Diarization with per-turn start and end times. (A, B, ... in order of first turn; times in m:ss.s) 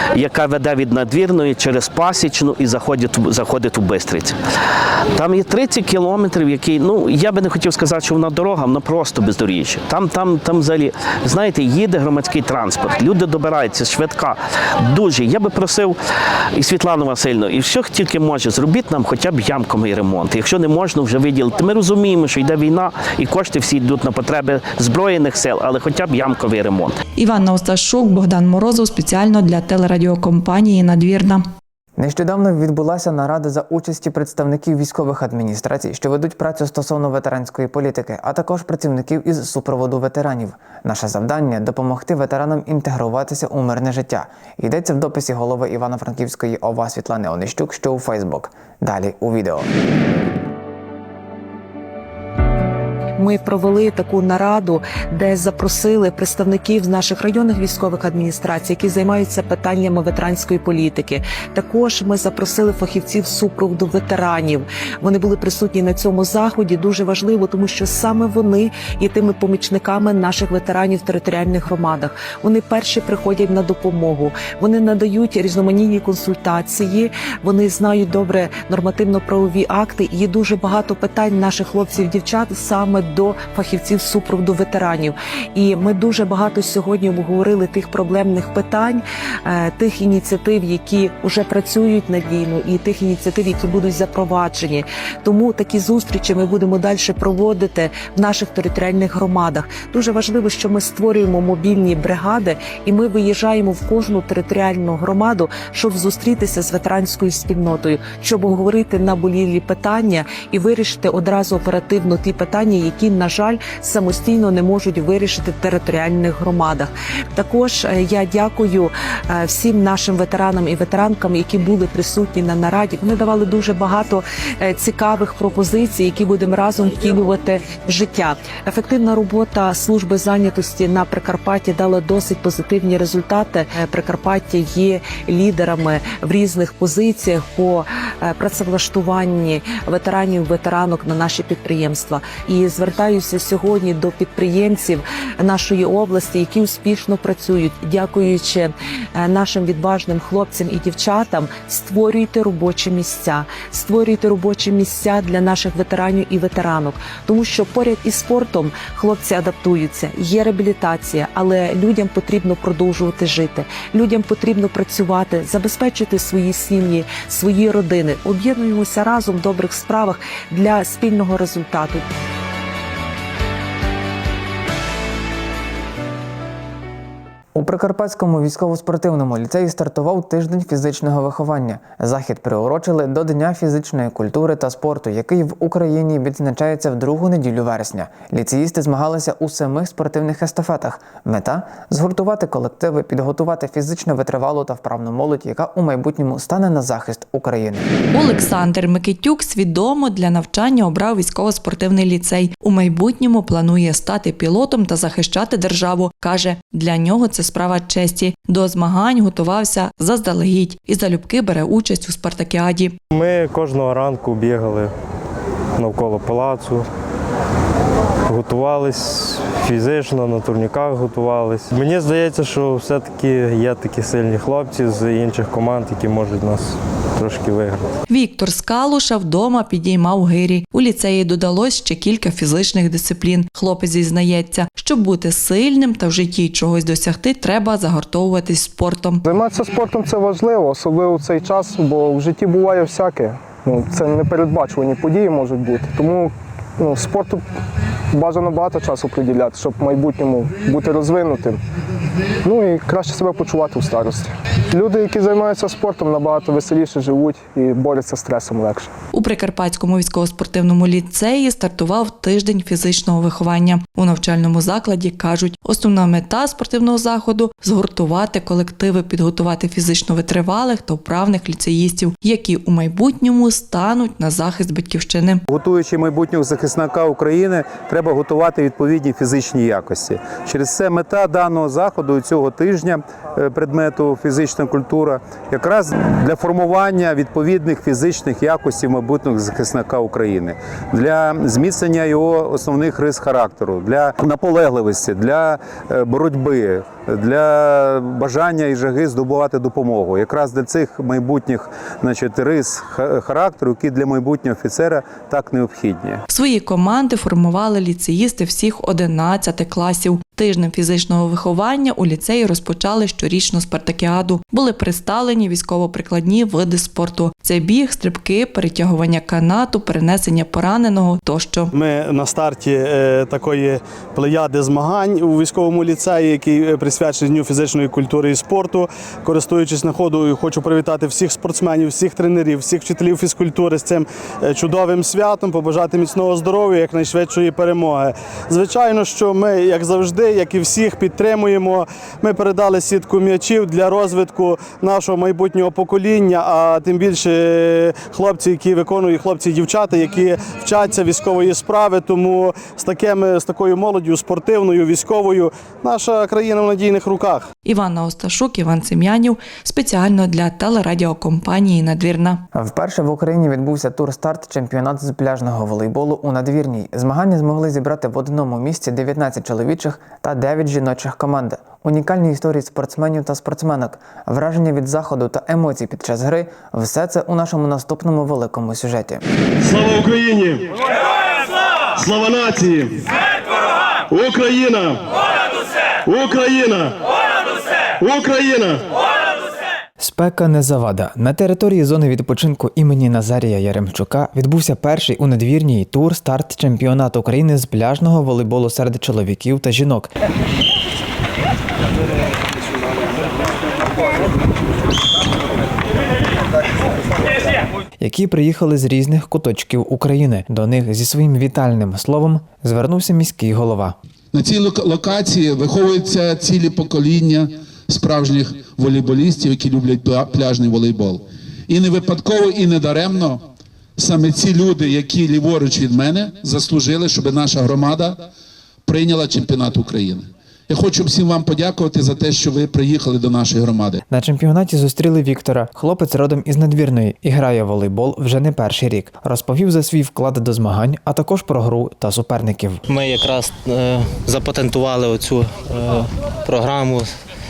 0:00.2-0:04.3 A
0:05.2-0:16.0 A
0:16.6-0:27.0 A
0:27.2-0:31.4 B
0:32.0-0:49.7 C
0:53.2-2:52.0 D
2:57.5-3:17.8 C
3:18.1-3:33.0 B
3:33.1-3:34.9 E
3:35.8-3:36.8 E
3:38.3-3:47.8 E
3:48.1-3:59.2 B
3:59.3-4:07.4 F
4:08.1-4:11.6 F
4:12.4-4:18.9 F
4:19.1-4:35.4 B
4:35.5-5:06.2 G
5:06.3-5:21.7 B
5:21.7-5:57.5 H
5:57.6-6:02.4 B
6:02.5-6:19.2 C
6:19.6-6:20.6 I
6:22.0-6:22.9 I
6:24.1-6:25.0 I
6:26.1-6:26.9 I
6:28.0-6:28.8 I
6:30.0-6:40.1 C
6:48.0-6:54.0 C
6:54.3-7:03.4 J
7:04.0-7:08.2 J
7:08.9-7:14.0 J
7:14.1-7:22.8 C
7:22.9-7:27.1 K